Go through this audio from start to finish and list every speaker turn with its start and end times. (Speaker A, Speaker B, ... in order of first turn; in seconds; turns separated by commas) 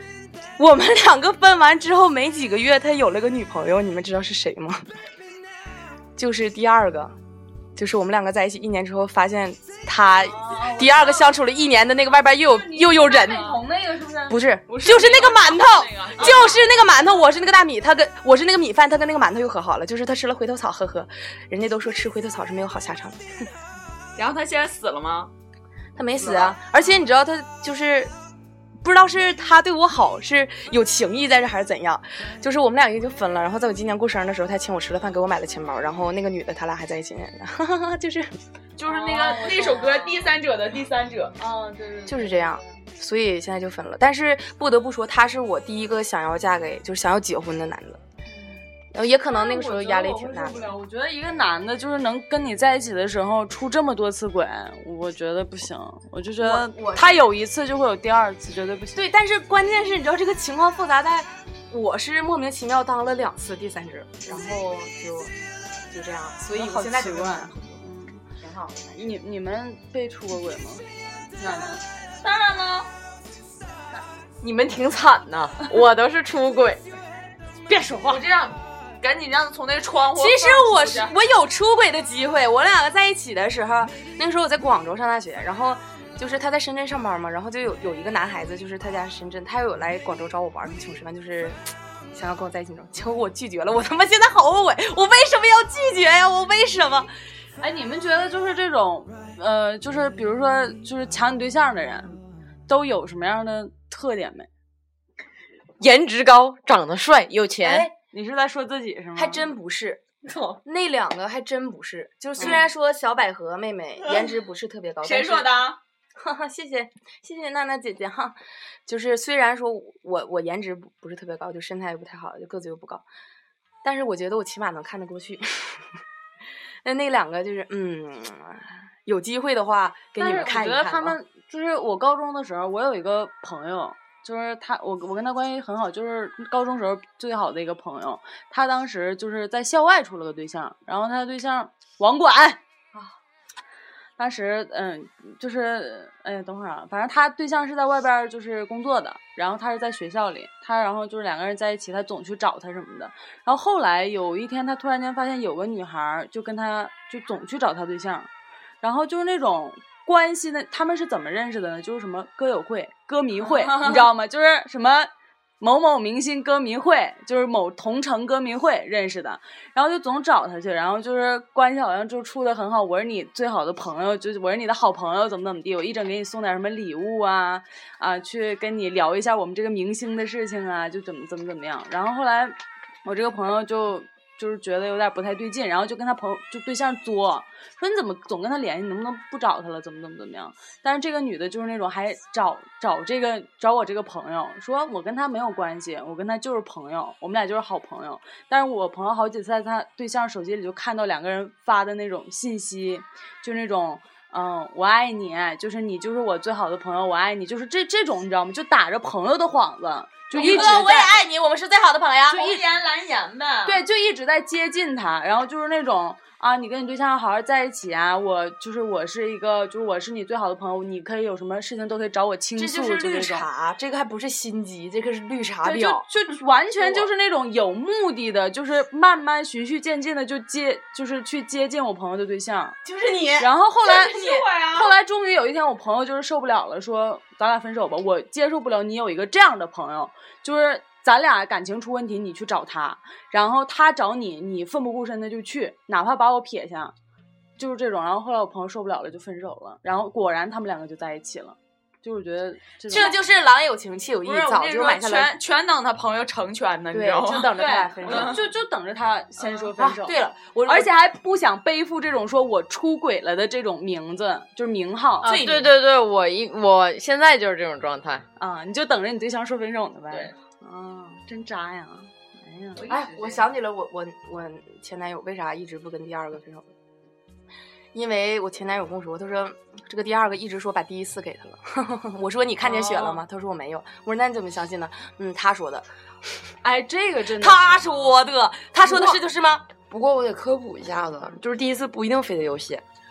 Speaker A: 0.6-4.8, Speaker A: 6.2-7.1, Speaker A: 7.8-13.6, Speaker B: 10.2-11.3, Speaker B: 12.4-14.4, Speaker C: 13.2-13.6, Speaker A: 14.3-23.4, Speaker C: 14.7-16.6, Speaker B: 16.2-16.8, Speaker C: 24.2-25.3, Speaker A: 25.9-28.1, Speaker D: 26.2-26.6, Speaker A: 28.8-38.3, Speaker C: 38.8-41.3, Speaker B: 38.9-40.4, Speaker B: 41.4-42.7, Speaker A: 42.1-48.0, Speaker A: 48.9-50.6, Speaker B: 49.3-59.0, Speaker A: 56.4-57.2, Speaker A: 58.9-65.3, Speaker A: 65.9-67.6, Speaker B: 66.5-68.2, Speaker B: 68.9-70.8, Speaker B: 71.3-71.8, Speaker C: 72.2-72.9, Speaker E: 74.4-76.8, Speaker D: 75.0-75.6, Speaker C: 78.0-81.1, Speaker A: 80.1-91.6, Speaker A: 92.1-97.1, Speaker B: 97.6-102.2, Speaker B: 102.7-104.5, Speaker E: 105.8-107.9, Speaker B: 108.1-109.4, Speaker A: 109.2-110.0, Speaker A: 110.6-115.6, Speaker C: 115.0-115.8, Speaker A: 116.2-118.3, Speaker A: 118.9-123.0, Speaker A: 123.8-125.8, Speaker A: 126.8-131.2, Speaker B: 130.2-142.6, Speaker B: 144.2-158.3, Speaker B: 158.8-211.1, Speaker A: 210.3-212.6, Speaker C: 210.4-210.8, Speaker C: 212.3-213.8, Speaker B: 213.6-223.4, Speaker A: 222.6-226.0, Speaker B: 225.6-232.8, Speaker A: 226.8-227.1, Speaker A: 232.8-233.5, Speaker B: 233.4-246.9, Speaker C: 234.0-234.9, Speaker B: 247.6-253.1, Speaker A: 252.9-255.3, Speaker C: 254.2-258.4, Speaker A: 256.9-258.4, Speaker B: 257.6-260.1, Speaker A: 259.8-260.9, Speaker B: 260.6-265.4, Speaker E: 265.2-268.2, Speaker A: 265.2-265.7, Speaker B: 268.4-272.9, Speaker A: 272.8-276.6, Speaker A: 277.9-285.9, Speaker B: 282.6-283.2, Speaker B: 286.6-288.1, Speaker A: 287.4-289.6, Speaker D: 288.9-289.1, Speaker D: 289.8-292.8